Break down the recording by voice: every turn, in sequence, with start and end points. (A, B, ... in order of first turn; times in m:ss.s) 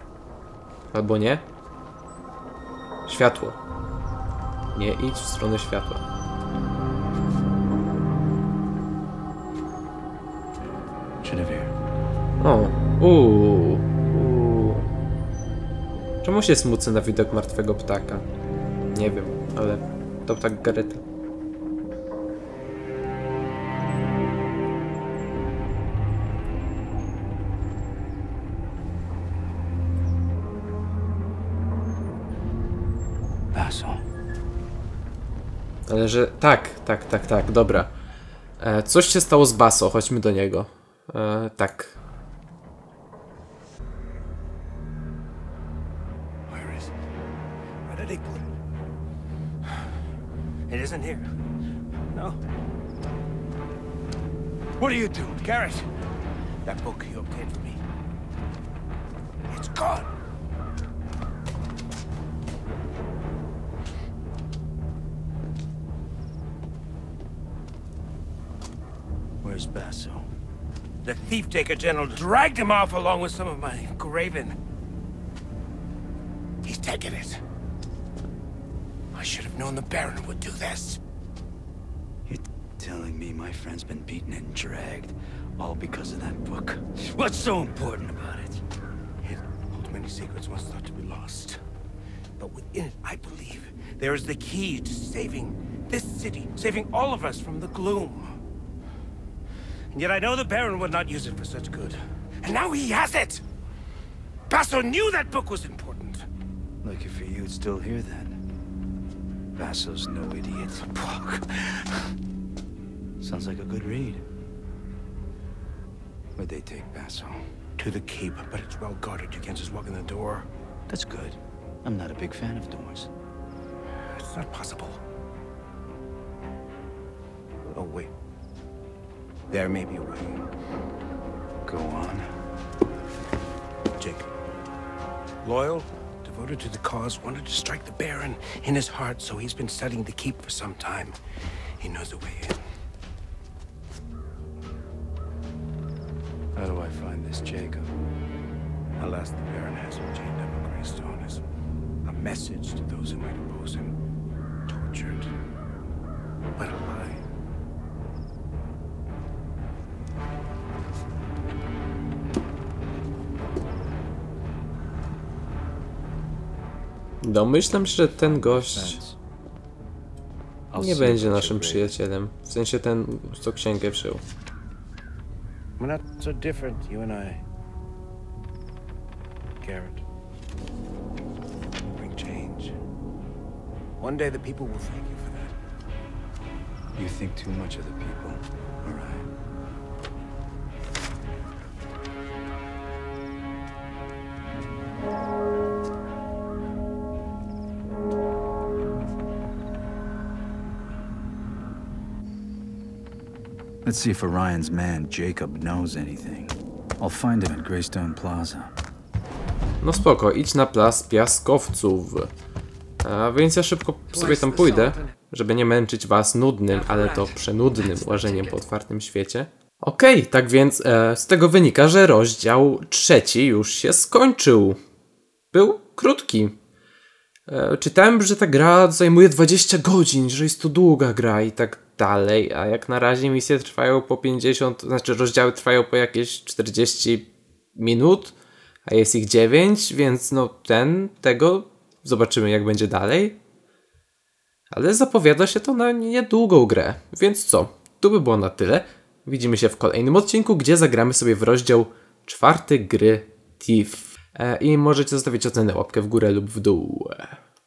0:00.9-0:01.4 A
0:03.0-0:03.6 A
0:04.7-0:06.0 A
0:11.2-0:11.7 B
0:12.4-0:14.9 A
0:16.2-0:18.2 A
0:18.9-0:21.0 A
0:33.5-0:34.0 B
0:35.9-0:37.9 A
0:38.6-0:42.0 A
0:46.5-0:46.9 C
0:47.8-0:48.6 C
0:50.7-0:51.3 C
0:52.1-0:52.4 C
0:54.8-0:55.9 C
0:56.6-0:57.8 C
0:59.5-1:00.1 C
1:09.4-1:10.3 B
1:11.0-1:14.5 C
1:16.6-1:17.4 C
1:19.1-1:21.0 C
1:22.3-1:26.9 B
1:27.0-1:28.0 C
1:28.0-1:28.6 B
1:29.2-1:31.6 C
1:32.4-1:38.3 C
1:39.9-1:43.4 C
1:44.5-1:46.2 C
1:46.8-1:48.4 B
1:49.6-1:51.9 B
1:53.2-1:54.2 B
1:56.4-1:57.4 B
1:57.8-2:00.5 C
2:00.9-2:03.1 B
2:04.0-2:05.0 C
2:07.6-2:08.1 C
2:09.5-2:10.4 C
2:11.6-2:12.3 B
2:14.0-2:14.3 C
2:15.4-2:21.2 C
2:21.8-2:22.6 C
2:26.6-2:27.9 B
2:29.0-2:31.4 C
2:32.0-2:33.9 C
2:34.7-2:35.3 C
2:36.6-2:37.2 C
2:47.2-2:49.0 A
2:48.1-2:49.2 B
2:50.7-2:52.0 B
2:50.8-2:54.2 A
2:55.8-2:57.4 C
2:59.6-3:00.0 C
3:01.9-3:02.8 C
3:04.0-3:05.5 C
3:06.9-3:09.3 B
3:23.8-3:28.7 B
3:29.8-3:32.3 A
3:33.0-3:44.8 A
3:34.3-3:34.9 C
3:45.5-3:46.6 A
3:47.5-3:58.3 A
3:58.8-4:03.4 A
4:04.7-4:17.4 A